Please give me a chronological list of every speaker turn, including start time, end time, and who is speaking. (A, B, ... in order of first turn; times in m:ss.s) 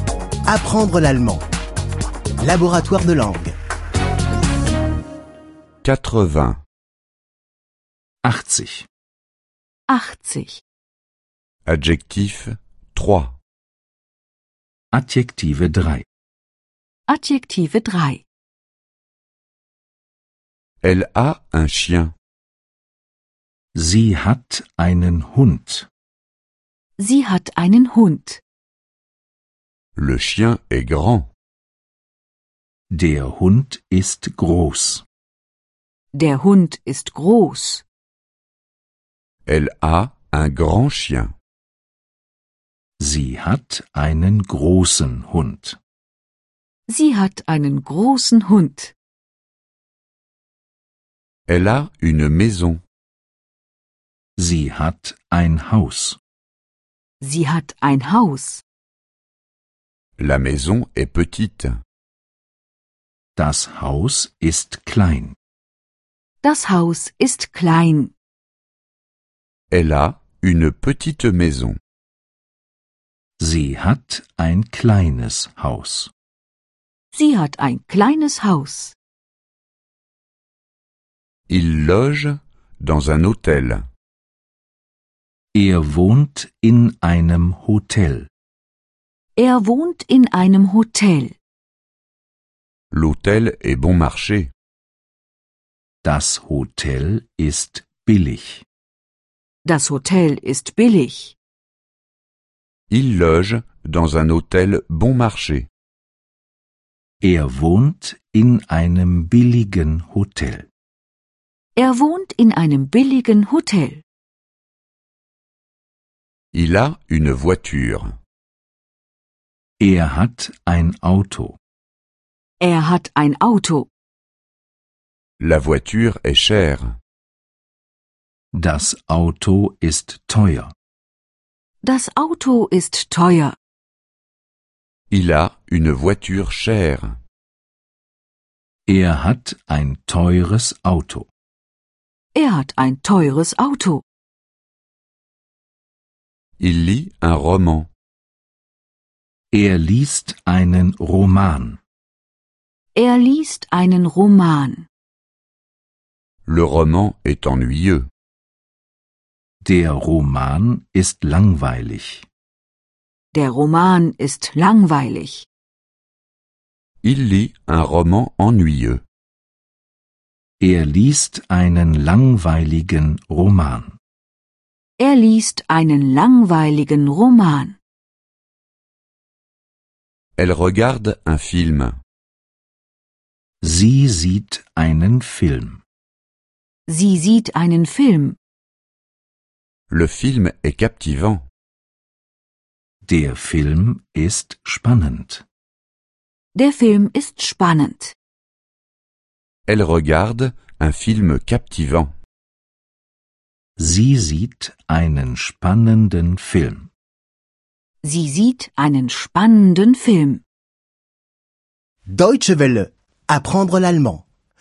0:00.5-0:01.4 A
0:02.4-0:03.5 A
0:05.8-0:06.6 B
0:08.2-0:08.9 C
0:09.9-0:10.6 D
0:11.7-0:13.4 B
0:14.9-0:16.0 C
0:17.1-0:18.2 D
0:20.8-0:22.1 B
0:23.8-0:25.9 C
0:27.0-0:28.4 D
0:30.0-0:31.3 B
0:32.9-0:35.0 C
0:36.1-0:37.8 D
0:39.5-0:41.3 B
0:43.0-0:45.8 C
0:46.9-0:48.9 D
0:51.5-0:52.8 B
0:54.4-0:56.2 C
0:57.2-0:58.6 D
1:00.2-1:01.8 B
1:03.4-1:05.4 C
1:06.4-1:08.1 D
1:09.7-1:11.8 B
1:13.4-1:16.1 C
1:17.1-1:19.0 D
1:21.5-1:23.9 B
1:25.5-1:28.3 C
1:29.4-1:31.3 D
1:32.9-1:34.5 B
1:36.0-1:38.6 C
1:39.6-1:41.3 D
1:42.9-1:45.7 B
1:47.2-1:50.7 C
1:51.8-1:54.0 D
1:56.5-1:58.2 B
1:59.8-2:01.6 C
2:02.6-2:03.9 D
2:05.4-2:07.0 B
2:08.5-2:10.7 C
2:11.8-2:13.6 D
2:15.1-2:17.2 B
2:18.9-2:21.3 C
2:22.3-2:24.0 D
2:26.6-2:27.9 B
2:29.5-2:31.8 C
2:33.0-2:34.9 D
2:36.5-2:38.1 B
2:39.6-2:42.2 C
2:43.3-2:45.5 D
2:47.0-2:49.0 B
2:50.6-2:54.0 C
2:55.0-2:57.8 D
3:00.4-3:02.0 B
3:03.6-3:05.8 C
3:06.9-3:08.4 D
3:09.9-3:11.4 B
3:13.1-3:15.4 C
3:16.6-3:18.2 D
3:19.7-3:22.1 B
3:23.8-3:26.9 C
3:28.0-3:30.4 D
3:32.1-3:34.2 A